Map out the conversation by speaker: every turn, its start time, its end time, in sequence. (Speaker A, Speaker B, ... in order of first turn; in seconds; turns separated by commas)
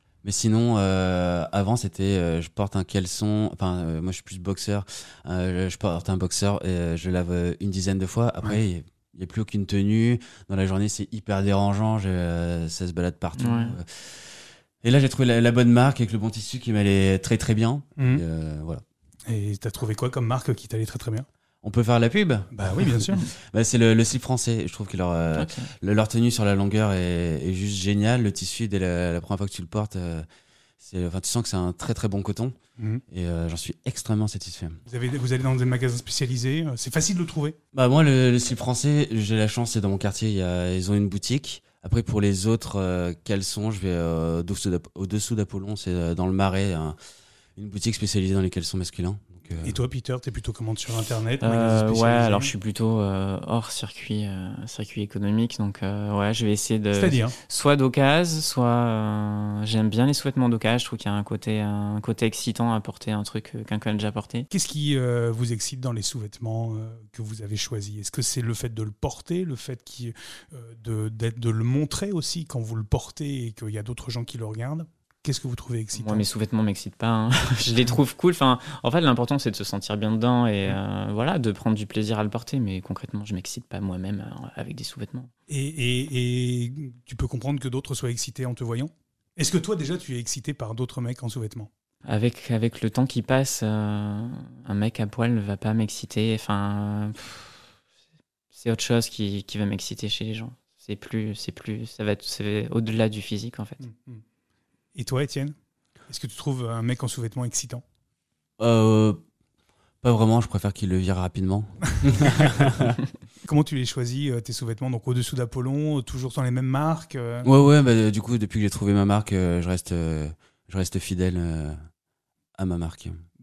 Speaker A: 0.2-18.8, Speaker B: 13.3-13.8, Speaker C: 18.0-18.2, Speaker C: 19.3-21.3, Speaker A: 21.6-30.2, Speaker C: 22.5-23.2, Speaker B: 25.4-25.7, Speaker A: 30.8-32.5, Speaker C: 32.8-33.0, Speaker A: 33.1-34.8, Speaker C: 34.9-37.6, Speaker A: 37.7-47.0, Speaker A: 47.6-49.8, Speaker C: 49.6-52.5, Speaker B: 51.4-64.5, Speaker C: 56.9-57.3, Speaker C: 64.5-76.2, Speaker B: 75.9-85.3, Speaker C: 85.5-91.7, Speaker B: 92.0-97.6, Speaker B: 98.5-103.8, Speaker C: 103.8-104.2, Speaker C: 105.0-105.5, Speaker C: 106.1-107.8, Speaker A: 108.6-109.2, Speaker A: 110.0-113.0, Speaker C: 113.4-117.5, Speaker A: 117.4-121.8, Speaker A: 122.6-123.2